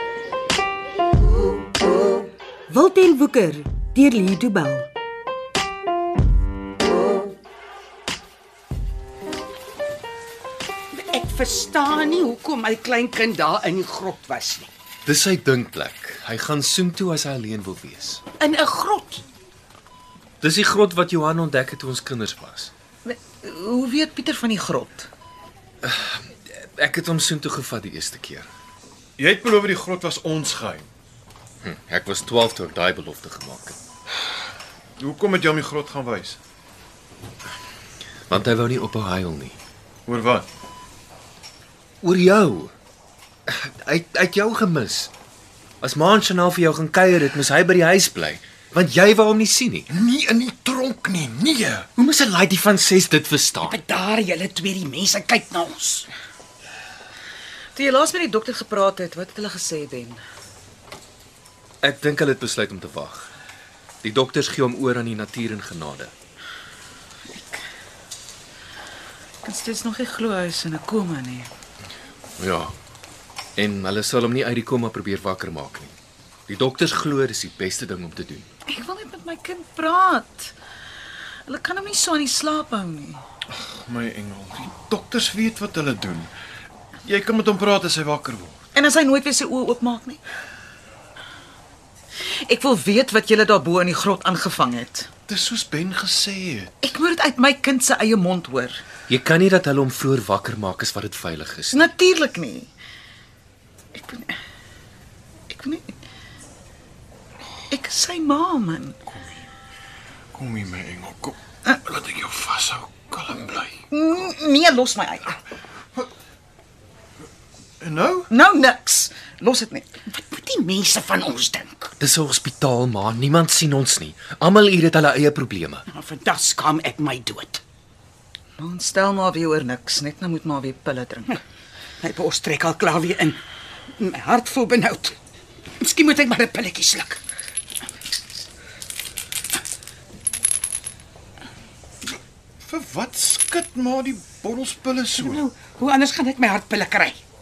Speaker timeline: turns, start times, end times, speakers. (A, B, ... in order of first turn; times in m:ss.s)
0:02.7-0:04.9 A
0:10.9-0:14.7 B
0:15.0-0:18.2 C
0:18.4-0:19.2 B
0:20.4-0:22.7 C
0:23.0-0:25.1 D
0:25.8-0:28.5 C
0:29.2-0:30.8 E
0:31.6-0:33.8 C
0:35.0-0:36.4 E
0:38.3-0:39.6 C
0:40.1-0:40.4 E
0:42.0-0:42.7 C
0:43.5-0:45.1 C
0:45.8-0:49.9 C
0:49.9-0:51.9 E
0:52.0-0:53.8 C
0:53.6-0:56.1 B
0:57.8-1:00.2 D
1:01.8-1:03.3 C
1:04.0-1:06.1 C
1:07.3-1:07.6 D
1:09.4-1:11.5 D
1:12.4-1:12.7 C
1:13.6-1:16.0 C
1:16.5-1:18.5 C
1:18.7-1:20.6 D
1:21.4-1:23.2 D
1:23.5-1:26.3 E
1:27.0-1:28.6 E
1:28.7-1:30.2 D
1:32.4-1:35.1 D
1:35.3-1:36.7 E
1:36.8-1:38.8 D
1:39.1-1:41.9 C
1:41.7-1:42.7 D
1:43.9-1:44.3 D
1:45.5-1:45.9 D
1:47.7-1:49.0 D
1:49.1-1:49.5 E
1:50.3-1:53.8 E
1:53.9-1:55.4 D
1:57.8-1:58.3 E
1:58.3-1:59.9 D
2:00.1-2:01.9 B
2:02.0-2:05.8 C
2:05.9-2:07.6 B
2:08.6-2:11.4 D
2:12.0-2:13.4 B
2:14.0-2:15.2 B
2:15.8-2:17.2 B
2:22.7-2:25.4 E
2:25.2-2:27.2 B